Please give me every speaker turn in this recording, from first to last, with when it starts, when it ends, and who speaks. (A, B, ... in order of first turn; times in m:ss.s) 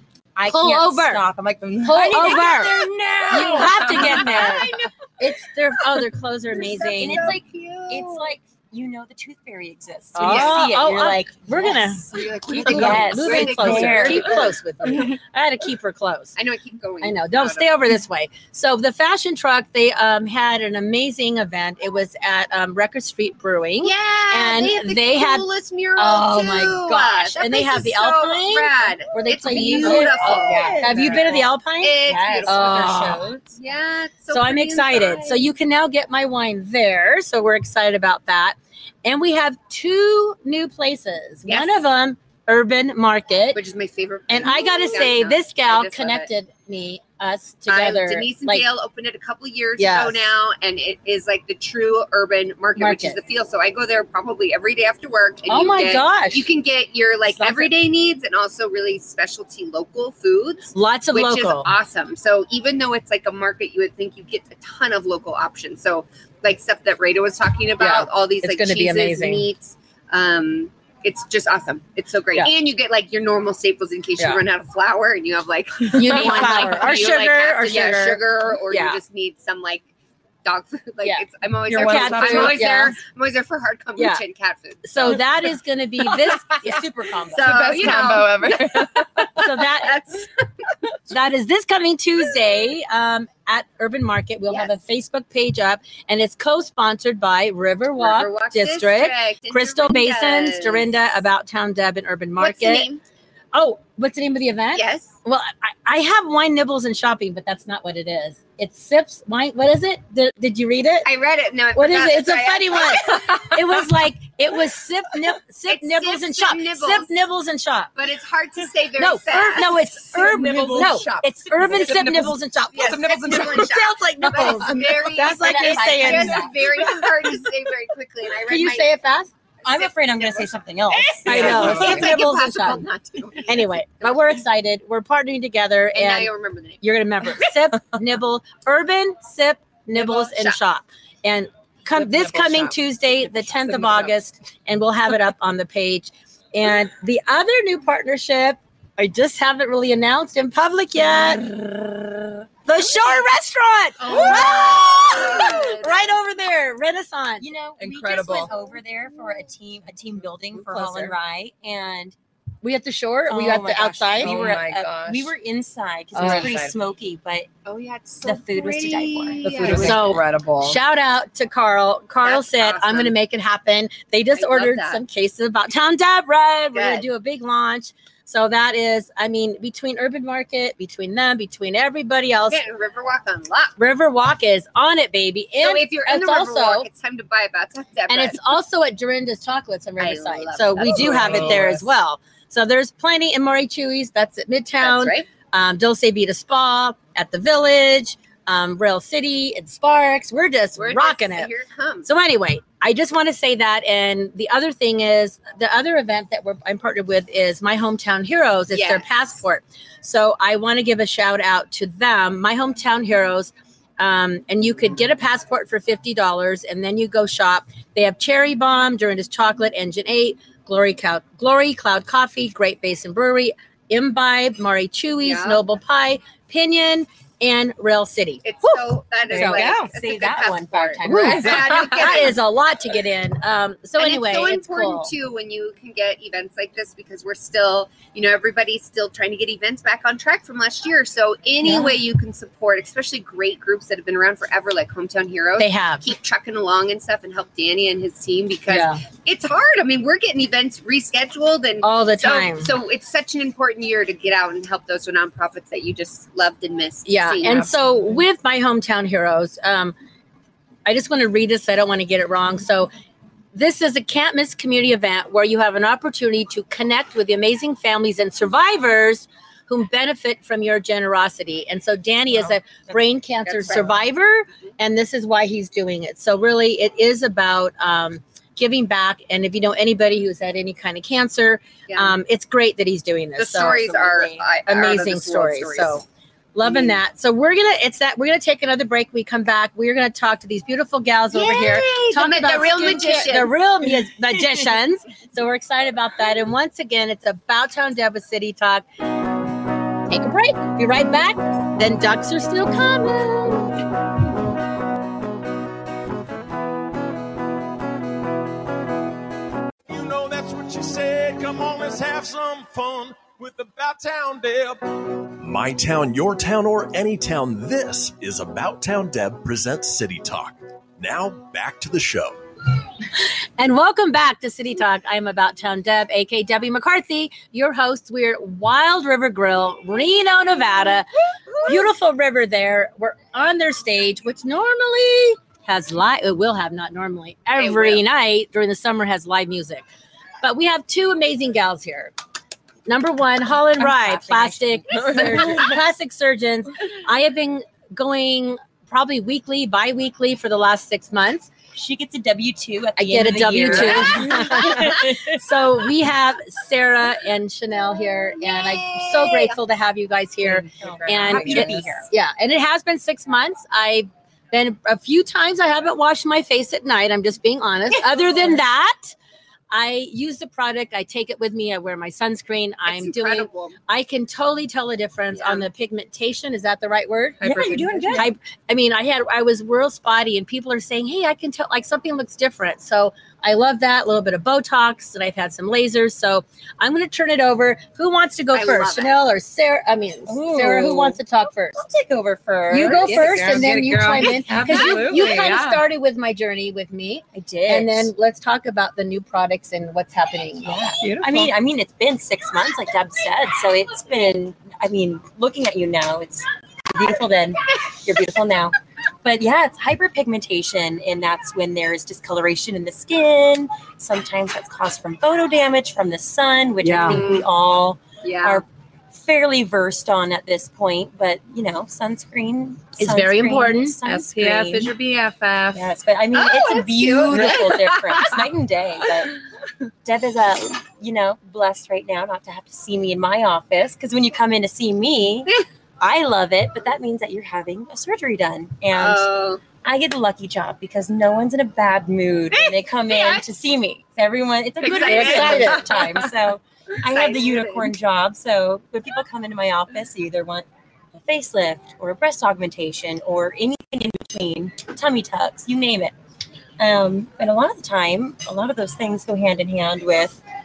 0:00.4-0:04.7 A
0:00.4-0:01.2 B
0:01.8-0:02.4 C
0:01.8-0:02.8 B
0:03.3-0:07.3 B
0:03.4-0:04.6 C
0:04.4-0:04.9 D
0:06.5-0:08.3 D
0:06.9-0:11.8 A
0:10.2-0:16.4 B
0:10.2-0:10.7 D
0:11.6-0:14.6 D
0:12.5-0:14.5 A
0:16.4-0:17.8 D
0:17.0-0:33.2 B
0:23.8-0:31.3 D
0:29.5-0:31.5 A
0:30.7-0:31.3 C
0:31.8-0:35.5 D
0:32.1-0:33.4 A
0:34.3-0:43.6 B
0:41.5-0:41.8 D
0:43.5-0:46.3 D
0:44.3-0:48.7 B
0:47.7-1:19.9 D
0:49.8-0:50.4 B
0:52.8-0:53.2 B
0:55.5-0:56.5 B
0:57.3-0:57.7 B
1:00.7-1:01.7 B
1:07.8-1:09.5 B
1:14.2-1:14.4 B
1:15.9-1:19.0 B
1:20.4-1:25.2 D
1:21.0-1:23.0 B
1:21.7-1:22.7 C
1:24.0-1:24.2 B
1:24.8-1:28.2 B
1:26.1-1:26.4 C
1:26.6-1:30.5 D
1:27.4-1:29.5 C
1:29.4-1:30.0 B
1:31.1-1:42.9 B
1:34.5-1:34.7 D
1:38.0-1:41.0 D
1:42.4-1:43.0 D
1:43.5-1:51.1 B
1:44.7-1:45.1 D
1:51.0-1:53.6 D
1:51.7-1:57.9 B
1:55.7-1:57.1 D
1:58.0-1:59.8 D
1:59.0-2:07.4 B
2:00.1-2:03.8 C
2:02.7-2:08.9 D
2:05.2-2:06.5 A
2:08.5-2:09.3 B
2:09.6-2:12.0 A
2:09.7-2:14.4 D
2:11.3-2:12.9 B
2:11.3-2:12.1 C
2:13.4-2:16.3 B
2:15.9-2:16.8 D
2:16.8-2:31.5 B
2:20.0-2:20.6 D
2:21.9-2:24.1 C
2:32.7-2:37.4 B
2:34.0-2:36.1 D
2:34.1-2:34.4 C
2:37.4-2:42.2 A
2:37.8-2:38.5 C
2:40.7-2:41.1 B
2:42.6-2:44.4 B
2:43.3-2:47.5 A
2:44.1-2:45.3 C
2:46.2-2:46.5 B
2:46.2-2:46.8 C
2:47.6-2:50.0 D
2:48.2-2:50.1 A
2:49.4-2:50.8 C
2:49.7-3:02.6 B
2:52.2-2:53.1 D
2:54.4-2:55.0 D
2:56.7-2:57.1 D
3:02.5-3:03.8 D
3:03.8-3:06.9 B
3:05.6-3:08.4 D
3:08.1-3:21.5 B
3:10.0-3:11.8 D
3:10.9-3:11.8 C
3:14.8-3:15.3 D
3:20.8-3:22.1 D
3:22.0-3:49.9 B
3:28.7-3:29.4 D
3:45.2-3:45.6 D
3:48.4-3:52.4 D
3:49.3-3:51.8 A
3:51.0-3:55.1 B
3:51.1-3:51.8 C
3:54.0-4:17.7 D
4:01.6-4:02.0 B
4:05.6-4:06.1 B
4:08.7-4:09.0 B
4:11.8-4:12.7 B
4:17.1-4:20.0 B
4:20.8-4:22.9 B
4:23.5-4:44.0 B
4:33.5-4:34.0 D
4:41.9-4:42.2 D
4:43.4-4:46.0 D
4:43.8-4:44.4 A
4:44.7-4:58.8 B
4:46.6-4:47.0 D
4:51.3-4:53.5 D
5:00.1-5:03.8 B
5:09.9-5:14.8 E
5:15.4-5:22.4 F
5:23.6-5:31.1 B
5:31.6-5:39.8 B
5:37.6-5:38.0 D
5:40.4-5:42.1 B
5:42.9-5:51.5 B
5:43.8-5:45.7 A
5:51.7-5:55.4 A
5:53.0-6:09.2 B
5:58.4-5:59.6 D
6:00.4-6:02.1 C
6:00.8-6:02.1 A
6:09.7-6:31.8 B
6:12.9-6:13.8 D
6:15.3-6:15.6 D
6:17.4-6:18.3 A
6:17.4-6:18.3 C
6:28.5-6:29.2 D
6:30.3-6:33.7 A
6:32.7-6:40.8 B
6:32.9-6:35.8 C
6:34.7-6:35.0 A
6:37.3-6:38.1 A
6:40.6-7:04.9 A
6:41.0-6:41.5 C
6:56.8-6:57.2 B
6:57.1-6:57.5 D
6:58.2-6:58.6 D
7:03.0-7:04.0 B
7:04.0-7:05.9 C
7:05.7-7:09.4 A
7:06.3-7:08.0 D
7:10.0-7:36.1 A
7:18.9-7:19.6 D
7:22.5-7:23.5 D
7:24.8-7:25.9 D
7:25.0-7:26.0 B
7:25.8-7:26.2 C
7:27.0-7:27.9 D
7:36.8-7:40.4 A